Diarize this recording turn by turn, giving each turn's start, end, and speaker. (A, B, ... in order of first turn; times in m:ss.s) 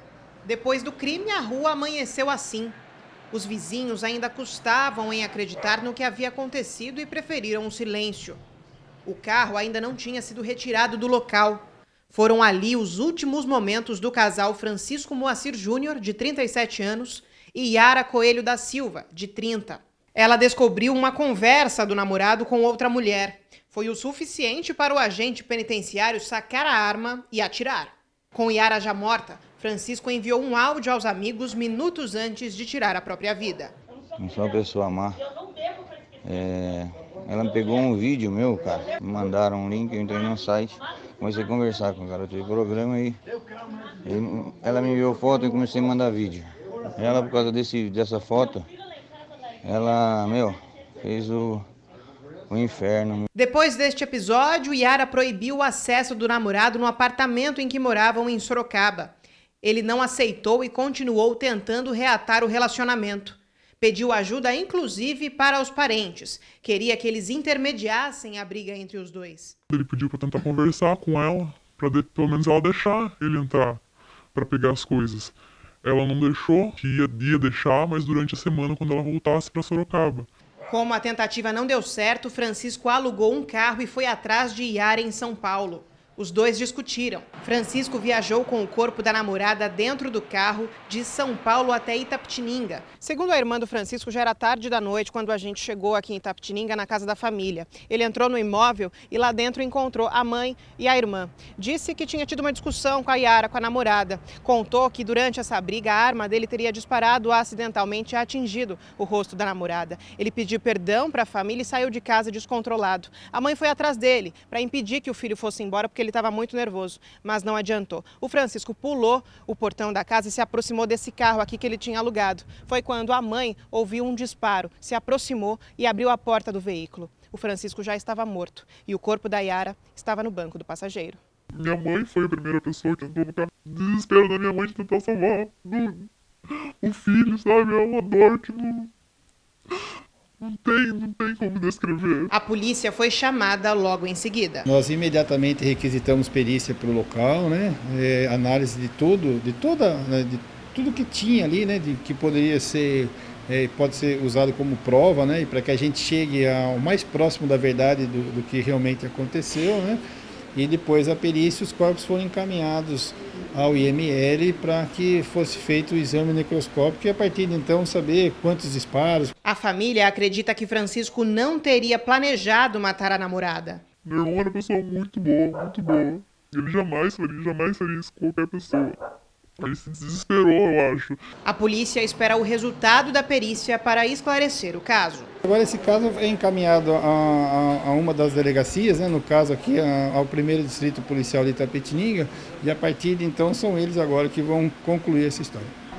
0:00.4-0:02.8 A
0:03.3-0:08.4 A
0:09.0-0:33.7 A
0:34.2-0:35.2 B
0:36.2-0:43.2 B
0:44.0-0:48.6 B
0:49.6-0:51.6 B
0:52.5-0:53.3 B
0:53.3-1:09.6 A
1:09.7-1:13.8 C
1:14.3-1:20.3 C
1:20.7-2:11.2 A
2:11.5-2:16.1 C
2:16.8-2:18.9 C
2:20.4-2:22.3 C
2:22.3-2:24.6 A
2:24.6-2:40.0 D
2:40.5-2:49.3 D
2:49.4-2:53.8 A
2:54.0-2:59.0 C
2:59.6-3:01.2 C
3:01.4-3:05.3 A
3:05.4-3:15.7 D